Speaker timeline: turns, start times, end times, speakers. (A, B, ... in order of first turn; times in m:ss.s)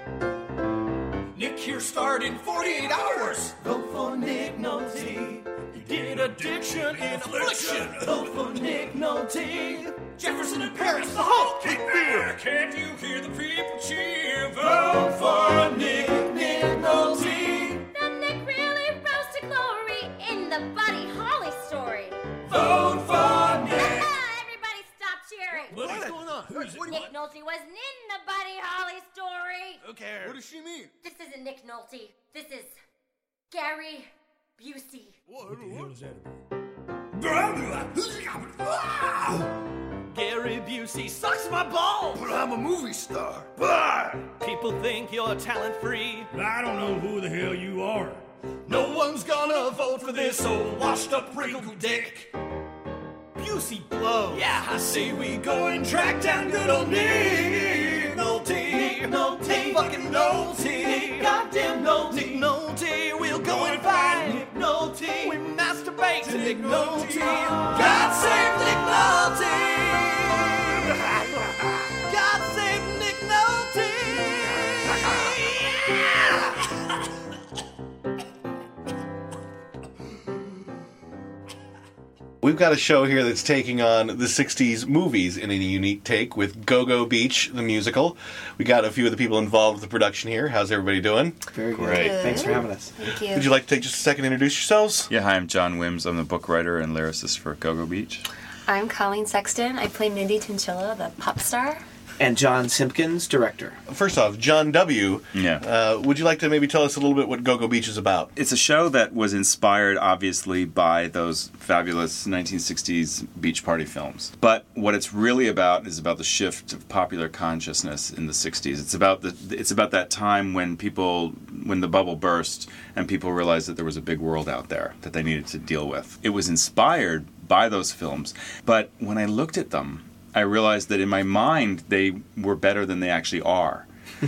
0:01.3-0:03.6 A
0:02.5-0:12.3 B
0:05.7-0:08.9 A
0:10.2-0:17.7 A
0:14.7-0:17.7 B
0:17.9-0:22.2 C
0:22.5-0:24.1 A
0:23.7-0:25.9 C
0:25.7-0:27.1 A
0:25.7-0:27.1 B
0:26.9-0:29.8 C
0:29.8-0:30.4 B
0:30.2-0:30.9 A
0:31.0-0:32.8 C
0:33.5-0:35.1 C
0:35.4-0:36.3 A
0:35.5-0:35.9 B
0:37.2-0:39.5 A
0:40.1-0:42.2 B
0:42.1-0:44.3 A
0:44.4-0:46.3 B
0:46.3-0:52.2 A
0:48.7-0:50.5 B
0:51.3-0:52.2 B
0:53.4-1:02.5 A
0:54.0-1:10.8 B
1:03.2-1:04.5 A
1:05.1-1:05.4 A
1:06.2-1:09.2 A
1:12.1-1:16.4 B
1:22.4-1:32.0 D
1:31.5-1:33.0 E
1:31.8-1:33.5 F
1:33.3-1:35.1 D
1:35.1-1:38.2 G
1:38.7-1:41.8 F
1:42.2-1:43.8 E
1:43.9-1:48.3 D
1:45.3-1:45.6 G
1:48.4-2:13.9 G